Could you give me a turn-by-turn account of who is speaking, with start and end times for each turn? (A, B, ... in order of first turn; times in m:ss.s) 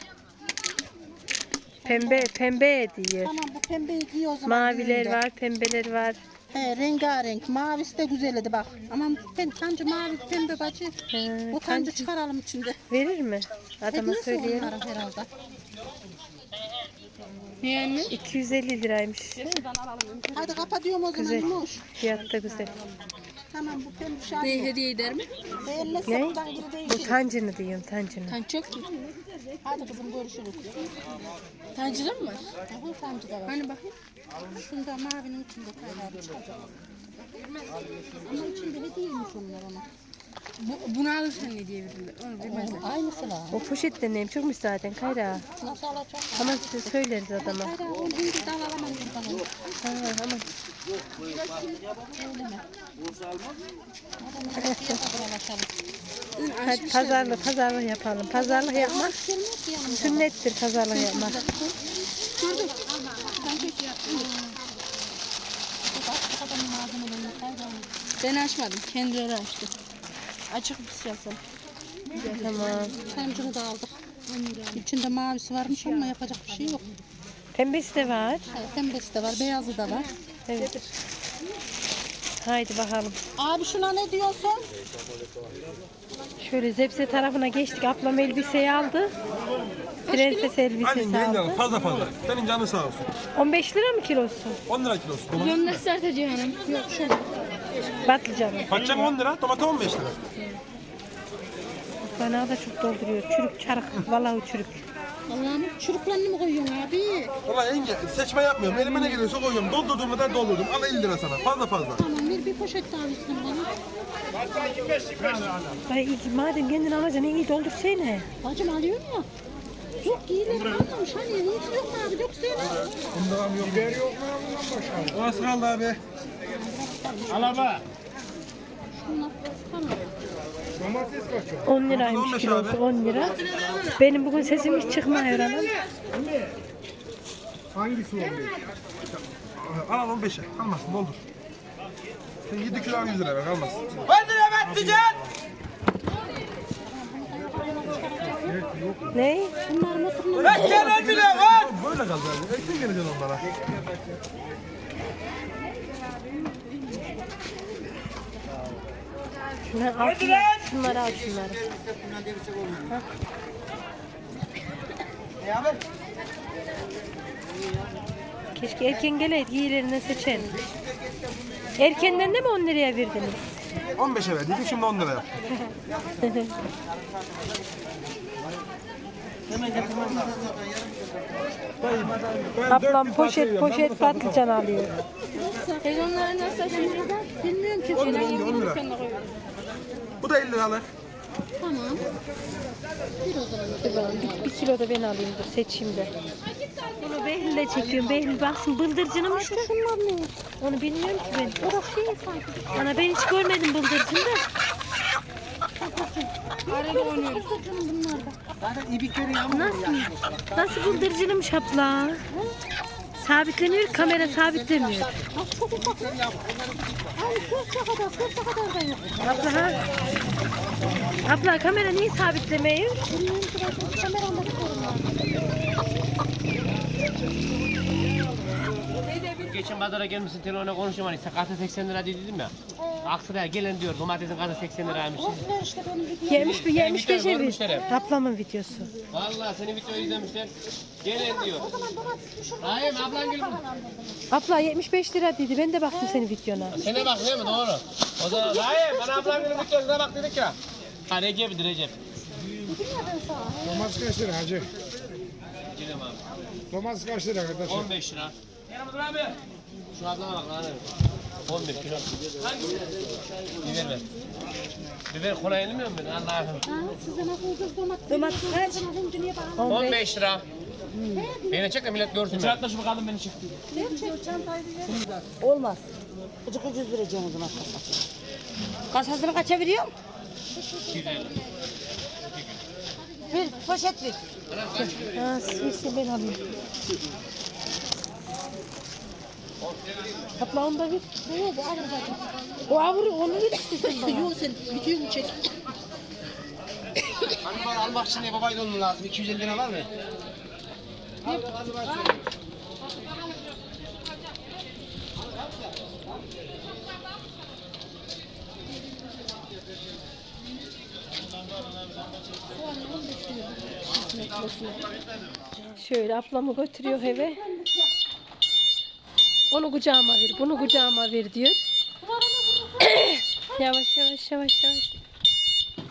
0:01.8-0:02.3 A
0:01.8-0:03.3 B
0:03.2-0:05.2 A
0:04.4-0:06.2 B
0:06.5-0:11.0 A
0:11.1-0:12.1 B
0:11.5-0:12.8 A
0:12.9-0:14.7 B
0:13.9-0:15.3 A
0:17.6-0:18.1 C
0:18.1-0:19.6 B
0:20.2-0:21.8 A
0:21.1-0:22.7 B
0:23.5-0:24.7 A
0:24.4-0:25.3 C
0:25.6-0:27.2 A
0:26.0-0:28.4 B
0:28.3-0:28.9 C
0:29.6-0:30.9 A
0:31.7-0:32.5 C
0:32.3-0:33.6 A
0:33.5-0:33.9 C
0:34.5-0:36.7 A
0:38.2-0:39.8 A
0:40.6-0:42.8 C
0:42.4-0:43.6 A
0:43.5-0:45.4 B
0:45.6-0:49.5 A
0:46.4-0:47.8 B
0:49.8-0:50.5 B
0:51.2-0:52.6 A
0:54.2-0:55.7 A
0:54.6-0:55.0 B
0:56.4-0:57.2 C
0:56.4-0:57.3 A
0:56.6-0:59.2 B
0:58.3-1:00.3 A
0:59.8-1:01.4 B
1:00.9-1:01.7 A
1:02.4-1:04.3 A
1:05.9-1:07.9 A
1:08.2-1:09.8 C
1:10.5-1:11.4 C
1:12.1-1:12.6 C
1:12.2-1:14.0 A
1:12.2-1:13.0 B
1:14.3-1:14.6 C
1:14.7-1:17.0 A
1:17.5-1:18.4 B
1:18.5-1:20.1 A
1:20.5-1:20.7 B
1:22.4-1:23.2 B
1:23.4-1:24.6 A
1:26.4-1:29.1 B
1:30.1-1:31.7 B
1:30.1-1:30.5 A
1:30.8-1:33.1 D
1:33.3-1:34.6 B
1:34.7-1:35.8 D
1:35.4-1:36.8 C
1:36.6-1:37.3 A
1:38.0-1:38.9 B
1:38.7-1:40.2 D
1:42.0-1:44.8 B
1:45.3-1:47.3 A
1:47.5-1:51.9 D
1:48.7-1:49.2 A
1:51.8-1:53.7 A
1:55.3-1:55.6 D
1:55.9-1:58.3 B
1:58.4-1:59.3 A
2:00.0-2:03.4 A
2:03.3-2:04.6 D
2:05.1-2:06.0 D
2:06.5-2:07.8 A
2:08.9-2:10.1 A
2:11.6-2:13.4 B
2:11.9-2:12.7 D
2:13.9-2:15.8 B
2:17.8-2:18.5 D
2:19.6-2:21.2 D
2:22.5-2:25.1 D
2:26.8-2:28.7 A
2:29.1-2:29.5 B
2:29.6-2:31.6 A
2:30.5-2:33.4 D
2:30.6-2:31.0 B
2:39.6-2:41.6 B
2:42.8-2:43.0 B
2:48.5-2:50.6 B
2:51.8-2:53.4 B
2:54.0-2:55.3 D
2:56.2-2:56.5 B
2:59.8-3:00.4 D
3:01.8-3:04.0 D
3:02.7-3:04.9 B
3:05.2-3:09.1 A
3:05.8-3:07.1 C
3:08.0-3:08.8 D
3:08.0-3:09.3 C
3:10.2-3:10.8 D
3:11.6-3:12.0 A
3:13.2-3:14.5 A
3:13.8-3:16.1 B
3:16.8-3:17.1 A
3:17.0-3:19.7 B
3:19.3-3:20.4 A
3:20.6-3:21.8 B
3:21.6-3:22.8 A
3:22.7-3:24.4 B
3:25.8-3:28.4 A
3:26.7-3:27.4 C
3:29.3-3:32.2 B
3:33.2-3:35.2 B
3:35.3-3:36.2 A
3:37.1-3:39.4 A
3:39.2-3:39.8 B
3:41.2-3:43.0 B
3:43.1-3:45.4 A
3:49.2-3:52.5 E
3:52.8-3:53.1 A
3:53.0-3:55.4 E
3:54.9-3:56.6 A
3:56.3-3:58.9 B
3:56.4-3:57.8 E
3:57.6-3:58.2 A
3:59.1-4:01.7 E
3:59.9-4:00.3 A
4:01.1-4:04.3 A
4:02.6-4:03.6 E
4:04.3-4:06.8 B
4:05.9-4:07.6 A
4:06.8-4:11.9 E
4:08.2-4:09.7 A
4:12.6-4:14.3 A
4:15.7-4:16.2 E
4:16.7-4:17.8 D
4:17.6-4:18.3 E
4:19.9-4:20.8 E
4:21.4-4:22.1 E
4:23.6-4:24.0 E
4:25.1-4:26.6 E
4:26.6-4:29.9 A
4:28.1-4:28.8 C
4:29.6-4:30.0 B
4:29.7-4:30.4 E
4:31.1-4:32.2 A
4:31.5-4:33.4 E
4:33.7-4:34.5 A
4:35.4-4:35.8 C
4:36.5-4:37.6 C
4:38.9-4:40.0 C
4:40.6-4:41.4 A
4:40.9-4:41.3 E
4:43.0-4:43.9 A
4:43.4-4:44.2 C
4:44.5-4:44.9 E
4:44.8-4:46.4 B
4:50.4-4:51.1 B
4:51.2-4:52.2 A
4:52.7-4:54.3 B
4:53.8-4:55.6 A
4:57.8-4:58.5 E
5:12.5-5:14.8 A
5:14.0-5:14.8 C
5:15.7-5:17.4 B
5:16.8-5:17.9 A
5:19.5-5:21.6 B
5:20.2-5:20.9 A
5:22.0-5:23.7 A
5:22.9-5:25.0 B